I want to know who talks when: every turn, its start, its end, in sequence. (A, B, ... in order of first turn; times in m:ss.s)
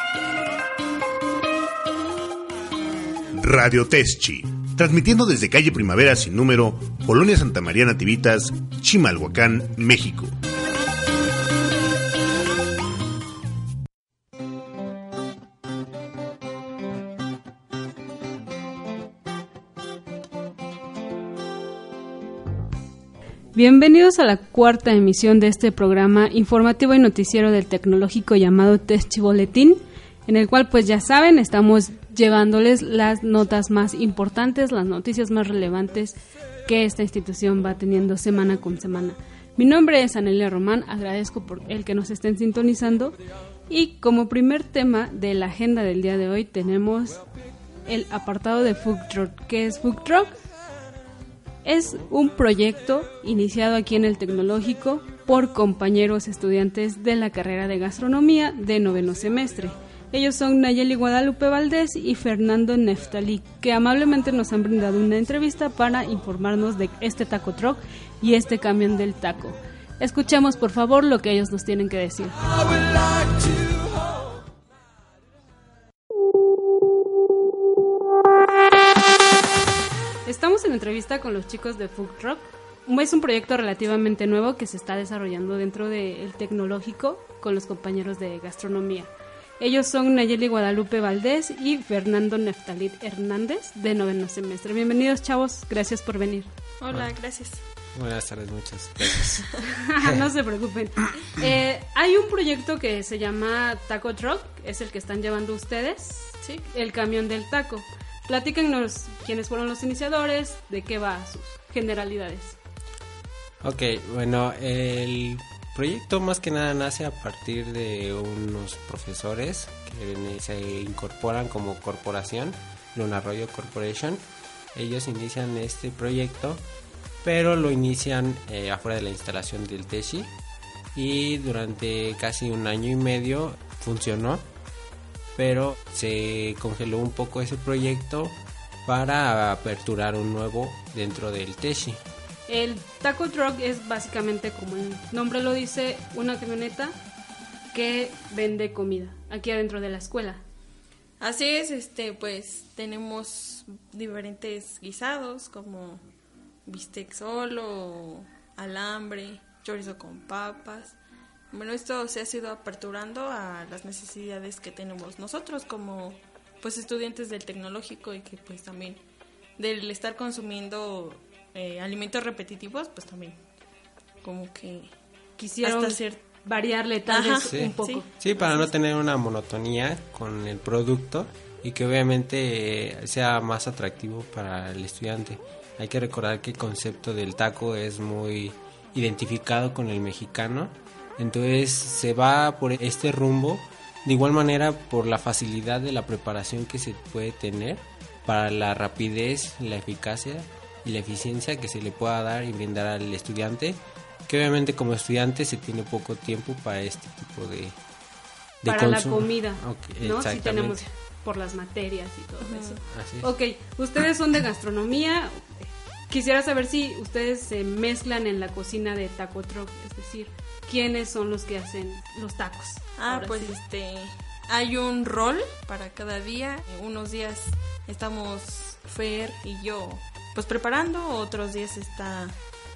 0:03.3-0:10.3 A
0:23.5-0:47.2 B
0:47.8-0:50.3 B
0:51.6-1:12.6 B
1:20.2-1:36.5 B
1:36.8-1:37.6 C
1:37.9-1:39.5 D
1:39.7-1:52.6 B
1:46.4-1:46.7 C
1:53.6-2:04.2 D
2:04.7-2:06.6 D
2:07.2-2:10.3 D
2:10.9-2:14.4 D
2:15.4-2:22.0 D
2:22.5-2:26.9 B
2:27.7-2:30.4 B
2:31.2-2:36.0 C
2:36.6-2:41.0 C
2:41.5-2:49.0 C
2:49.6-2:53.4 C
2:54.2-2:54.9 C
2:55.4-2:58.2 B
2:55.6-2:56.2 C
2:57.0-2:58.7 C
2:57.4-3:27.8 D
3:28.6-3:30.8 D
3:28.6-3:43.6 B
3:32.4-3:32.8 C
3:32.9-3:33.3 D
3:43.0-3:52.4 C